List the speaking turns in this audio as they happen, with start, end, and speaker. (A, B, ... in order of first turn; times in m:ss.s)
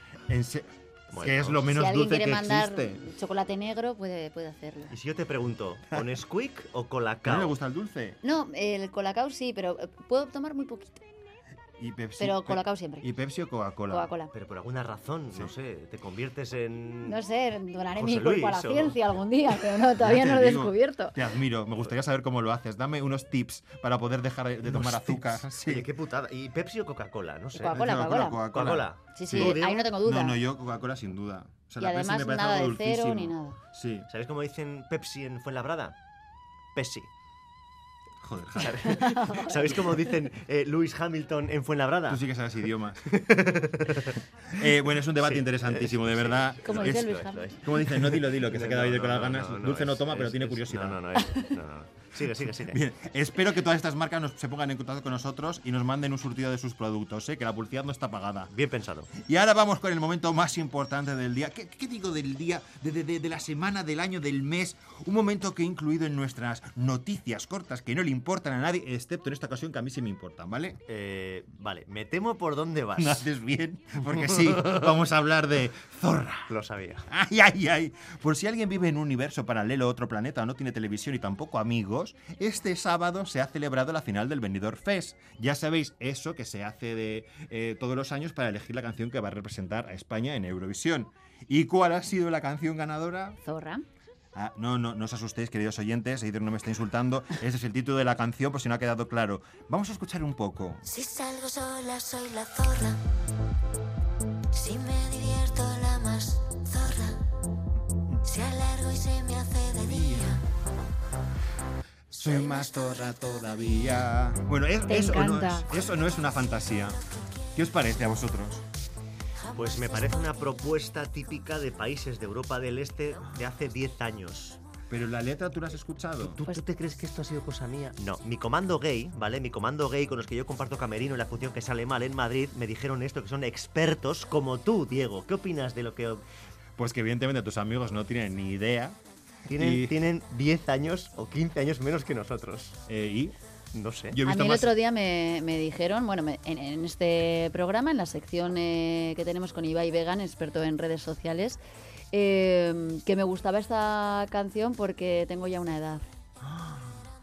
0:00.3-0:03.0 A
0:01.1-0:01.7 B
0:01.7-0:04.9 C
0:04.9-0:07.6 B
0:07.2-0:08.2 A
0:08.2-0:11.0 C
0:11.8-0:14.1 A
0:12.2-0:13.1 C
0:13.9-0:14.3 C
0:14.3-0:17.2 B
0:17.0-0:21.2 C
0:18.0-0:19.0 B
0:20.0-0:25.9 A
0:24.6-0:27.8 B
0:27.6-0:28.4 C
0:27.7-0:34.1 A
0:28.5-0:29.9 B
0:29.1-0:30.4 C
0:31.8-0:33.6 C
0:34.1-0:36.0 B
0:36.8-0:37.1 B
0:38.2-0:39.0 A
0:38.6-0:42.2 B
0:38.8-0:39.8 C
0:42.1-0:43.2 A
0:43.0-0:44.2 B
0:44.5-0:51.0 A
0:45.2-0:52.8 B
0:46.6-0:47.5 C
0:52.7-0:58.5 A
0:58.5-0:59.1 B
0:59.2-1:10.8 A
1:10.9-1:13.3 B
1:13.0-1:16.5 A
1:14.3-1:14.7 B
1:16.5-1:17.1 B
1:17.1-1:33.4 A
1:33.4-1:33.8 C
1:34.4-1:40.9 A
1:40.9-1:43.0 D
1:44.5-1:47.2 D
1:48.2-1:50.4 D
1:49.8-1:50.4 A
1:52.1-1:57.0 A
1:52.2-1:53.8 D
1:54.9-1:55.7 C
1:55.8-1:56.8 D
1:57.6-1:58.6 A
1:59.5-2:00.5 D
1:59.5-2:04.6 B
2:04.9-2:06.4 A
2:06.2-2:16.2 B
2:16.8-2:19.0 A
2:19.5-2:22.8 B
2:19.5-2:20.0 A
2:22.9-2:23.4 A
2:23.7-2:24.2 B
2:24.1-2:24.7 A
2:24.2-2:31.6 C
2:32.1-2:36.0 C
2:36.4-2:36.8 A